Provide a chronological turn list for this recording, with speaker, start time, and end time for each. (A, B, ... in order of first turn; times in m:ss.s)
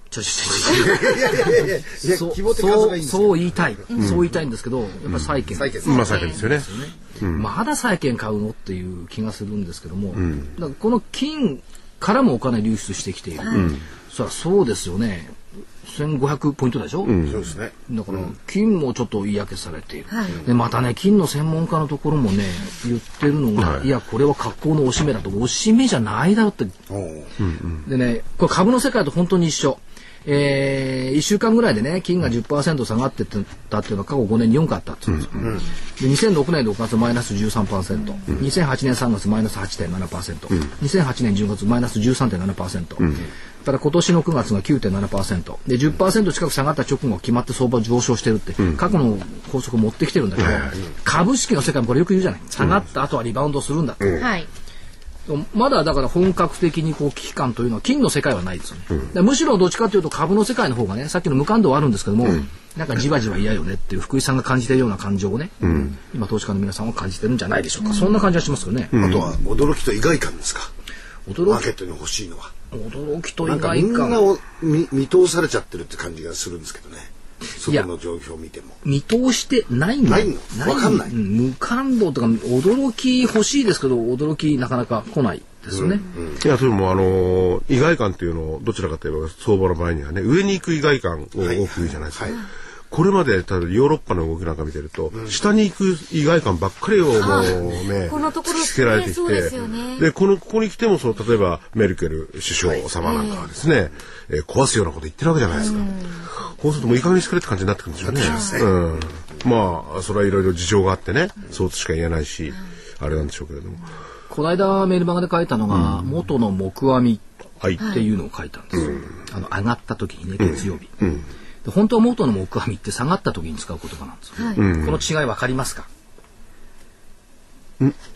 0:00.1-0:01.5 A
0:00.6-0:03.6 B
0:02.0-0:17.2 A
0:04.0-0:04.3 C
0:05.1-0:06.7 C
0:05.5-0:06.1 B
0:06.0-0:06.4 D
0:07.2-0:07.5 C
0:10.2-0:10.5 C
0:13.5-0:13.8 C
0:17.0-0:17.5 C
0:17.3-0:18.3 B
0:17.9-0:26.8 A
0:23.6-0:23.9 C
0:26.9-0:27.3 B
0:27.4-0:27.8 C
0:27.8-0:54.3 A
0:54.2-0:54.5 D
0:55.3-1:09.3 A
1:05.6-1:05.9 C
1:08.9-1:09.3 C
1:09.0-1:10.7 B
1:11.3-1:11.7 A
1:11.5-1:12.5 B
1:12.7-1:14.3 A
1:13.4-1:18.8 B
1:18.8-1:26.1 A
1:20.0-1:21.1 B
1:25.8-1:26.4 B
1:26.4-1:32.4 C
1:31.4-1:32.4 B
1:32.9-1:45.9 C
1:37.2-1:40.1 D
1:43.0-1:43.4 D
1:45.6-1:46.3 D
1:46.4-1:53.9 C
1:48.0-1:49.3 B
1:48.2-1:48.5 D
1:54.3-1:57.3 A
1:55.7-1:56.0 C
1:57.8-2:00.9 A
1:57.8-1:58.1 D
2:01.6-2:05.9 A
2:04.4-2:04.6 D
2:04.6-2:05.0 C